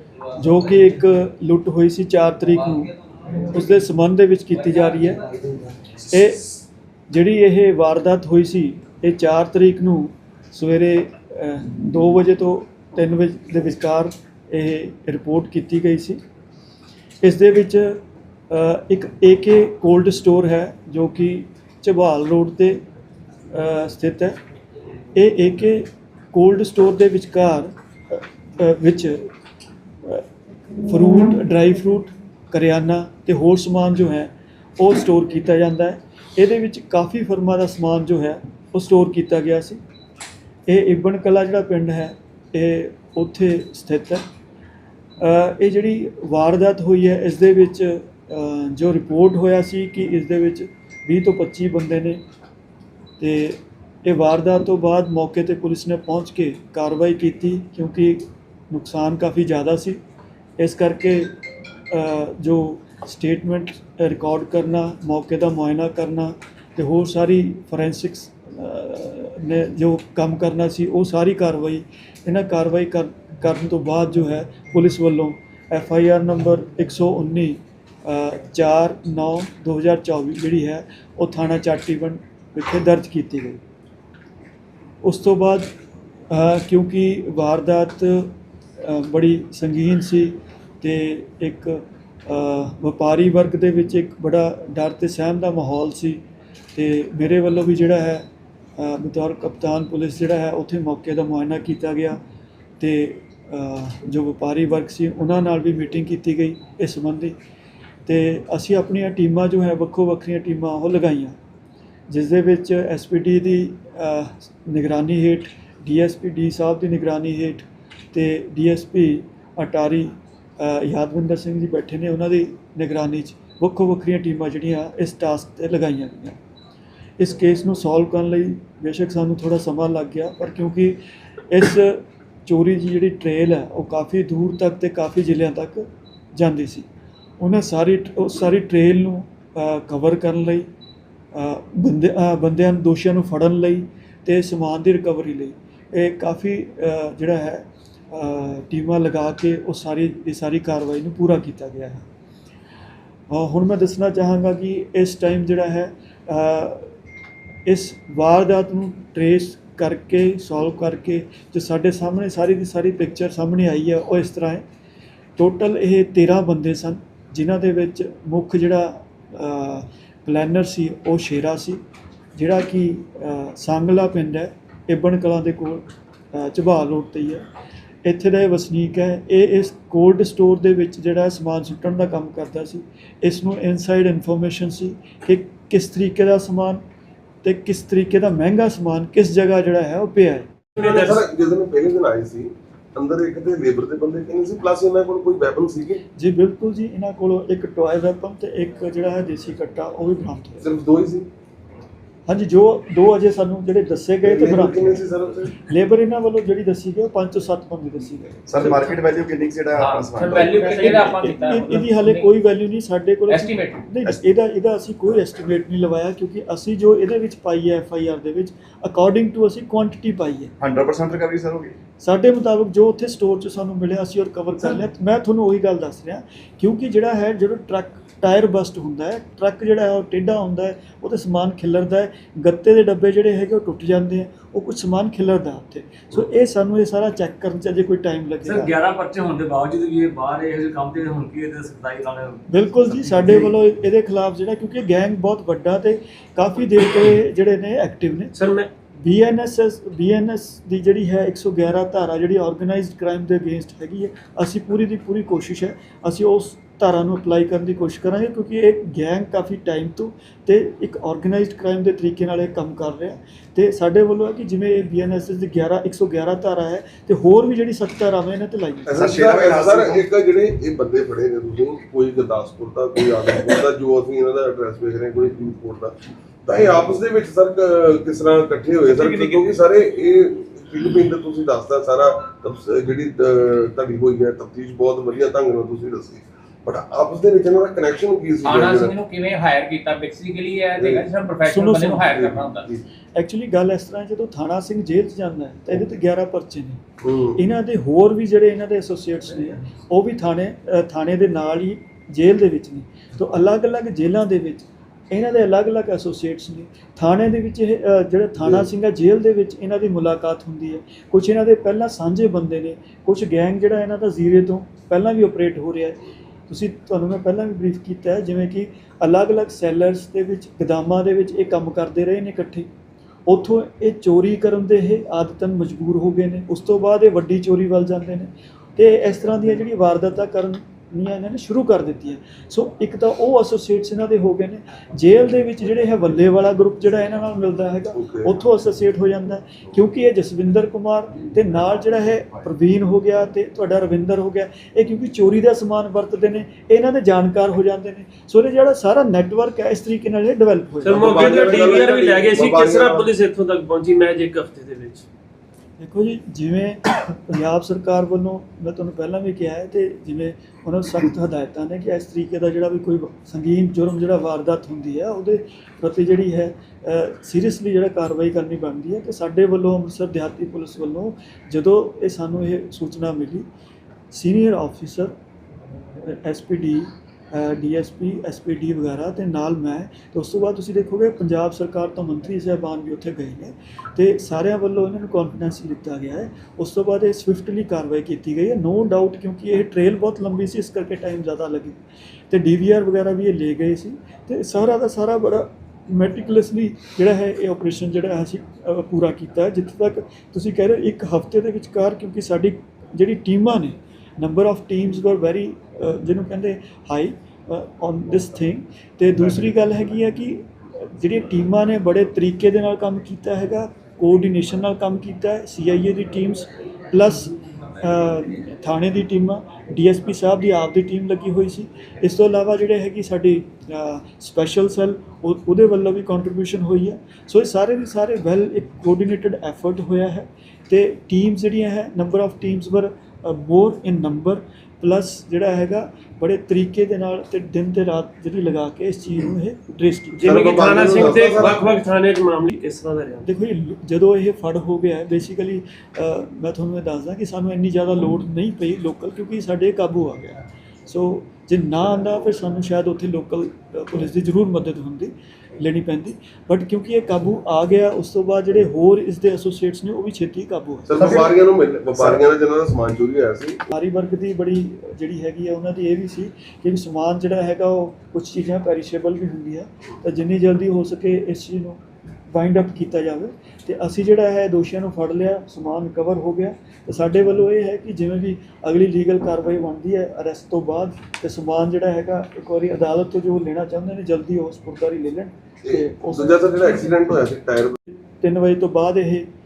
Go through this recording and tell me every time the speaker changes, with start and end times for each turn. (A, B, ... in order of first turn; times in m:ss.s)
0:00.3-0:05.2 A
0:06.0-0:16.2 A
0:17.2-0:22.8 A
0:23.5-0:24.4 A
0:25.2-0:29.3 A
0:30.8-0:39.8 A
0:40.7-0:44.2 A
0:45.2-0:52.2 A
0:53.2-1:00.0 A
1:00.6-1:01.3 A
1:01.9-1:23.6 A
1:25.0-1:25.7 A
1:26.3-1:36.2 A
1:36.7-1:38.2 A
1:38.8-1:42.2 A
1:42.8-1:47.4 A
1:48.0-1:51.4 A
1:52.1-2:06.4 A
2:07.2-2:11.0 A
2:11.5-2:16.9 A
2:17.4-2:20.7 A
2:21.3-2:32.1 A
2:33.3-2:36.9 A
2:37.7-2:44.6 A
2:45.4-2:51.8 A
2:52.3-2:57.4 A
2:58.0-3:06.8 A
3:07.4-3:10.5 A
3:10.8-3:11.2 B
3:10.8-3:16.0 C
3:16.2-3:20.7 A
3:20.6-3:21.3 C
3:22.3-3:28.8 A
3:24.2-3:25.6 C
3:28.5-3:31.2 D
3:29.8-3:32.3 E
3:30.7-3:40.5 A
3:33.3-3:33.8 E
3:40.6-3:41.7 D
3:42.0-3:58.7 A
3:58.4-4:03.3 F
4:02.5-4:08.3 A
4:08.3-4:08.7 B
4:09.0-4:28.9 A
4:28.9-4:49.0 C
4:28.9-4:30.0 D
4:48.4-4:52.7 E
4:50.8-4:51.1 C
4:51.4-4:52.1 A
4:52.0-4:52.8 C
4:53.1-4:56.8 A
4:57.0-4:57.4 C
4:57.4-5:16.0 A
5:16.5-5:22.7 A
5:23.3-5:51.6 A
5:38.0-5:38.3 C
5:50.8-5:55.0 B
5:50.8-5:53.1 C
5:51.1-5:52.0 F
5:55.8-6:13.4 A
6:14.1-6:15.1 A
6:16.0-6:31.8 A
6:32.3-7:20.6 A
7:20.2-7:21.7 C
7:20.2-7:23.3 B
7:20.3-7:21.1 F
7:23.2-7:41.2 A
7:40.9-7:43.6 C
7:41.0-7:41.3 D
7:43.7-8:06.9 A
8:05.6-8:07.8 C
8:08.2-8:09.3 A